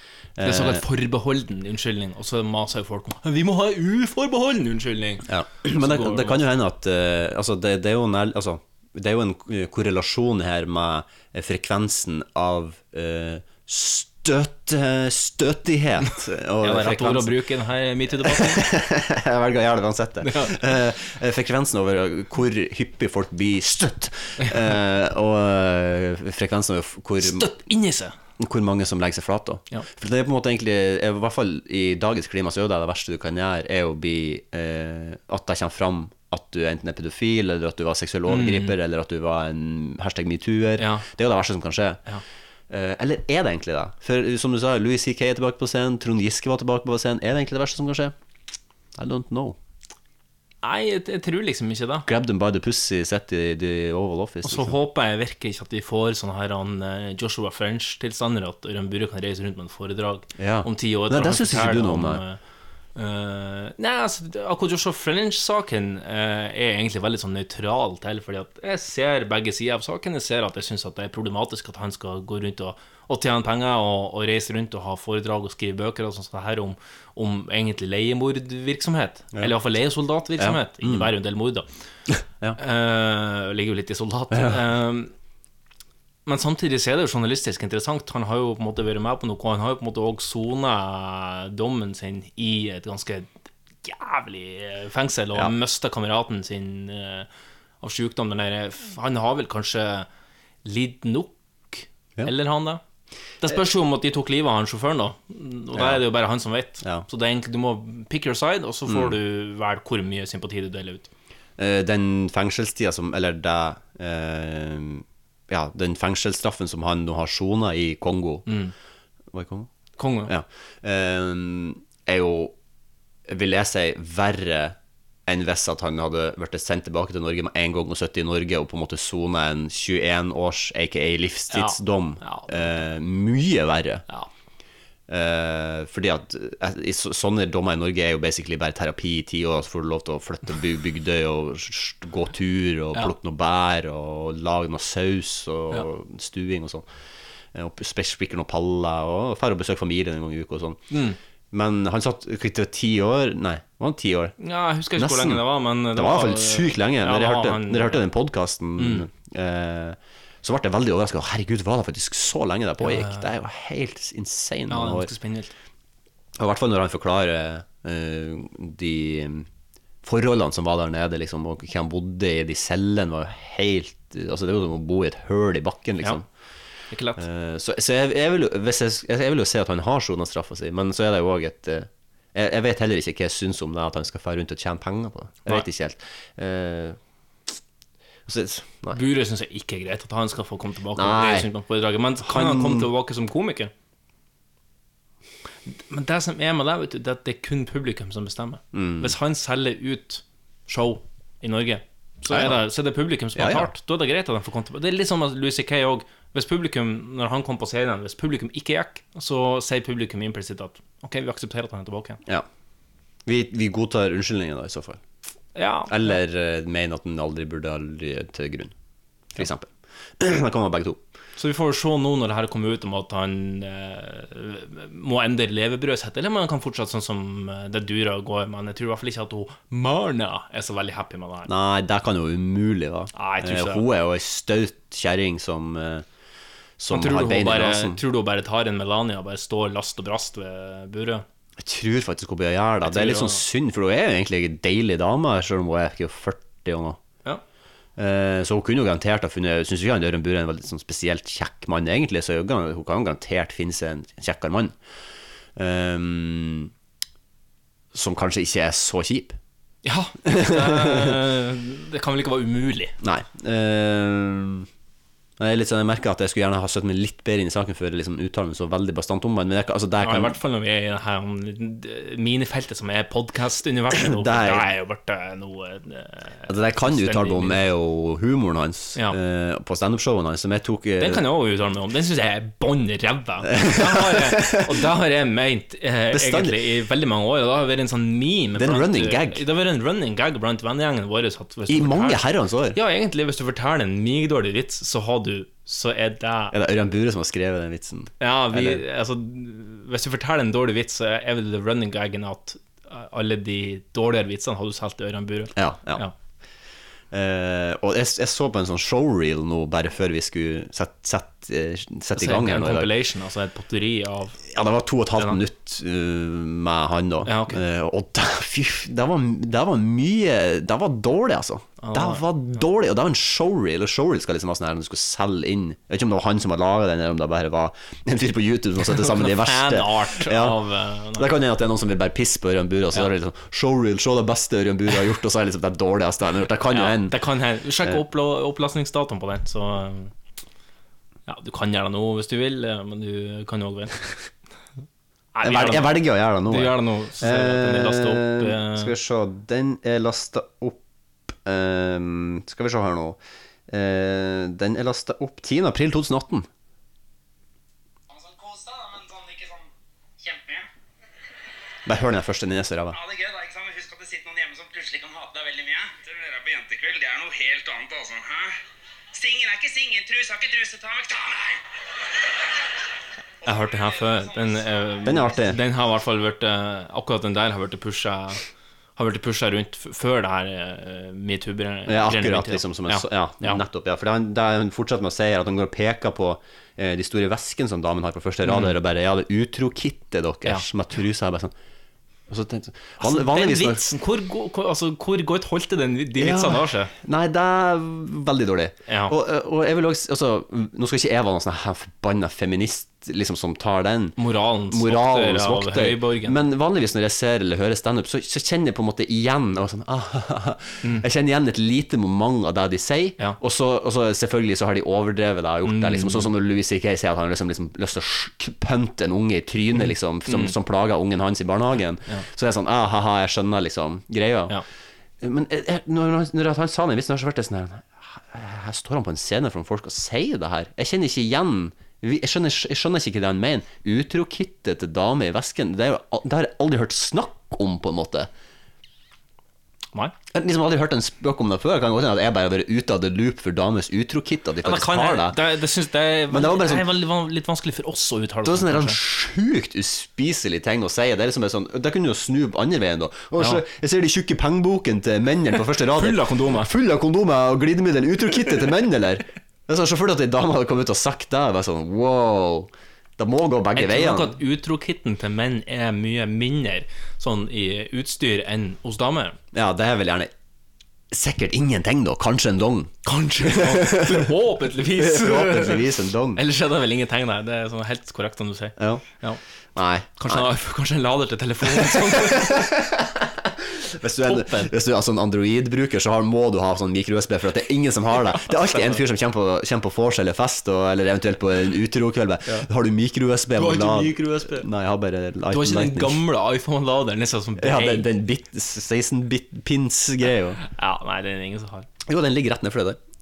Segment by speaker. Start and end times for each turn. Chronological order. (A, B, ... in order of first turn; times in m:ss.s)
0:00.4-0:00.8 A
0:00.4-0:06.4 B
0:05.3-0:17.4 A
0:16.6-0:18.7 B
0:18.2-0:27.5 A
0:20.2-0:20.6 B
0:27.2-0:28.2 B
0:28.4-0:42.0 A
0:38.3-0:38.8 B
0:40.8-0:41.1 B
0:42.7-0:48.1 A
0:49.0-0:49.6 A
0:50.6-0:52.1 B
0:52.1-0:54.8 A
0:54.4-1:02.4 B
1:00.4-1:02.2 A
1:03.0-1:21.7 B
1:20.4-1:21.1 A
1:22.6-1:25.1 B
1:24.3-1:24.6 A
1:26.3-1:33.3 B
1:33.8-1:37.3 B
1:37.8-1:40.1 B
1:40.6-1:42.8 B
1:43.4-1:51.1 B
1:45.8-1:46.0 A
1:48.9-1:49.2 A
1:51.6-1:58.5 A
1:58.5-1:58.7 B
1:59.3-1:59.7 A
2:00.0-2:00.3 B
2:00.2-2:02.6 A
2:03.3-2:14.0 A
2:11.5-2:12.8 B
2:15.1-2:26.9 A
2:27.5-2:30.8 A
2:30.9-2:31.2 B
2:31.5-2:34.3 A
2:34.4-2:38.1 B
2:35.0-2:45.1 A
2:38.8-2:39.1 B
2:42.8-2:43.3 B
2:44.7-2:45.5 B
2:46.4-2:49.5 A
2:50.0-2:56.2 A
2:56.9-2:57.2 B
2:57.2-3:07.0 A
3:08.3-3:09.0 A
3:08.9-3:13.7 B
3:11.0-3:11.5 A
3:12.2-3:12.9 A
3:15.7-3:32.2 B
3:18.7-3:19.1 A
3:22.3-3:22.6 A
3:23.4-3:23.7 A
3:33.3-3:35.0 A
3:35.6-3:36.1 B
3:35.9-3:38.7 A
3:39.4-3:41.0 A
3:41.4-3:51.5 B
3:51.5-3:56.1 A
3:53.1-3:53.9 B
3:56.8-3:58.0 A
3:56.9-4:01.2 B
4:01.6-4:07.0 A
4:02.8-4:03.4 B
4:08.0-4:14.8 A
4:15.6-4:16.7 A
4:17.9-4:19.4 A
4:19.8-4:23.0 B
4:20.2-4:21.2 A
4:23.0-4:24.7 A
4:25.4-4:30.4 A
4:30.0-4:37.6 B
4:33.9-4:34.7 A
4:36.5-4:41.2 A
4:41.0-4:56.6 B
4:43.5-4:44.8 A
4:46.1-4:46.6 A
4:48.6-4:49.4 A
4:51.7-4:52.8 A
4:56.5-4:58.8 A
4:58.2-5:06.1 B
5:05.6-5:06.0 A
5:07.1-5:12.9 A
5:12.2-5:14.4 B
5:14.5-5:30.6 A
5:17.2-5:17.6 B
5:21.8-5:22.2 B
5:28.9-5:31.3 B
5:31.2-5:37.2 A
5:36.7-5:40.1 B
5:41.3-5:44.1 B
5:45.4-5:48.9 B
5:45.4-5:56.5 A
5:58.1-5:59.7 C
6:00.2-6:00.7 C
6:01.9-6:03.0 A
6:02.9-6:08.6 C
6:09.1-6:11.6 C
6:13.4-6:18.4 B
6:13.5-6:14.4 C
6:15.0-6:15.6 A
6:19.0-6:23.6 B
6:21.9-6:31.5 A
6:28.4-6:28.8 B
6:32.3-6:33.9 A
6:33.0-6:36.9 B
6:36.2-6:44.2 A
6:38.9-6:39.1 B
6:44.2-6:46.4 B
6:44.7-7:04.6 A
6:55.6-6:56.3 B
7:00.3-7:00.6 B
7:05.2-7:18.3 A
7:20.3-7:25.4 A
7:24.6-7:29.0 B
7:26.3-7:26.9 A
7:28.4-7:44.4 A
7:36.0-7:36.7 B
7:43.8-7:49.4 B
7:49.5-7:50.3 A
7:51.1-7:54.3 A
7:53.0-7:59.4 B
7:54.9-7:56.4 A
7:58.8-7:59.1 A
7:59.8-8:00.4 A
8:00.2-8:02.8 B
8:01.7-8:16.2 A
8:04.2-8:04.7 B
8:08.4-8:09.0 B
8:13.6-8:14.7 B
8:15.5-8:18.1 B
8:17.6-8:20.6 A
8:20.6-8:21.9 B
8:22.1-8:23.0 A